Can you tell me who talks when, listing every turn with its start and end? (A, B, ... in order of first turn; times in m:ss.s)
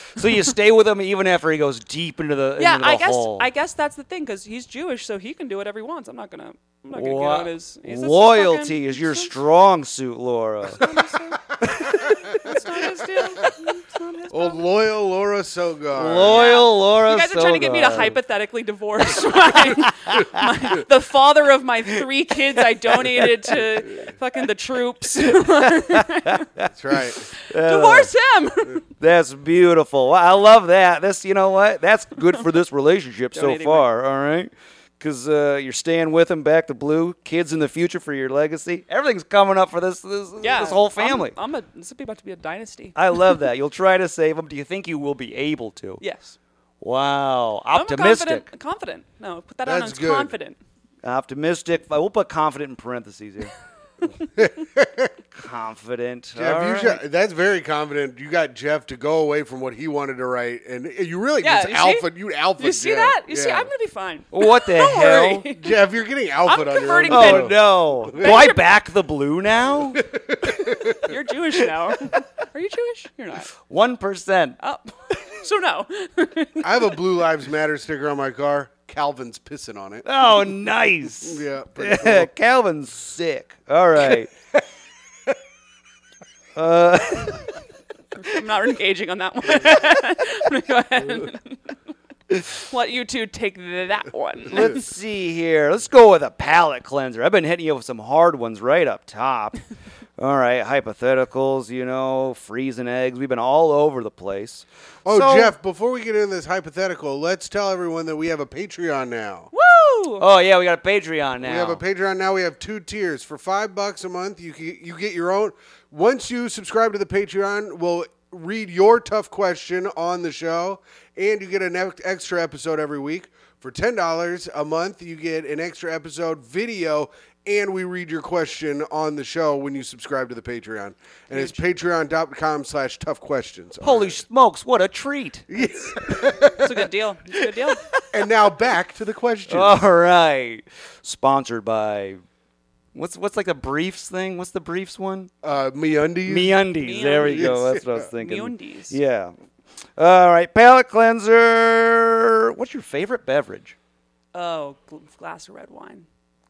0:00.2-0:03.5 A
0:02.6-0:09.4 B
0:06.9-0:10.9 A
0:10.7-0:14.6 B
0:11.6-0:11.9 A
0:12.3-0:12.5 C
0:14.3-0:16.5 C
0:15.9-0:18.2 A
0:16.2-0:26.5 B
0:19.5-0:20.4 A
0:22.6-0:23.6 A
0:25.6-0:26.7 A
0:26.7-0:27.3 C
0:27.3-0:28.8 B
0:27.4-0:28.1 A
0:29.0-0:41.4 A
0:33.3-0:33.9 B
0:40.4-0:43.4 B
0:42.9-0:46.0 A
0:46.0-0:46.4 B
0:46.8-0:48.5 A
0:47.7-0:50.6 B
0:49.6-0:50.3 C
0:51.0-0:53.5 A
0:54.4-0:55.1 C
0:55.3-0:57.0 A
0:56.3-1:03.7 C
1:01.4-1:02.0 B
1:02.6-1:05.8 B
1:04.3-1:05.4 A
1:05.6-1:08.5 C
1:06.4-1:08.6 B
1:07.1-1:10.1 A
1:09.9-1:11.1 C
1:10.9-1:13.5 B
1:13.6-1:14.6 A
1:14.6-1:16.9 B
1:16.6-1:20.0 C
1:20.0-1:24.3 A
1:21.2-1:22.3 C
1:26.6-1:27.5 A
1:28.2-1:31.7 B
1:32.5-1:34.8 B
1:34.5-1:39.6 A
1:40.2-1:45.5 A
1:45.0-1:49.5 C
1:49.5-1:50.2 B
1:50.2-1:51.8 A
1:51.4-2:14.2 C
2:11.3-2:11.6 B
2:13.8-2:15.5 A
2:15.5-2:16.9 C
2:16.6-2:17.8 B
2:17.7-2:18.1 A
2:18.1-2:19.8 C
2:19.5-2:22.2 A
2:22.9-2:25.3 A
2:25.4-2:26.6 C
2:26.2-2:29.3 A
2:26.8-2:29.0 B
2:27.2-2:28.0 C
2:30.0-2:33.8 A
2:34.3-2:36.1 B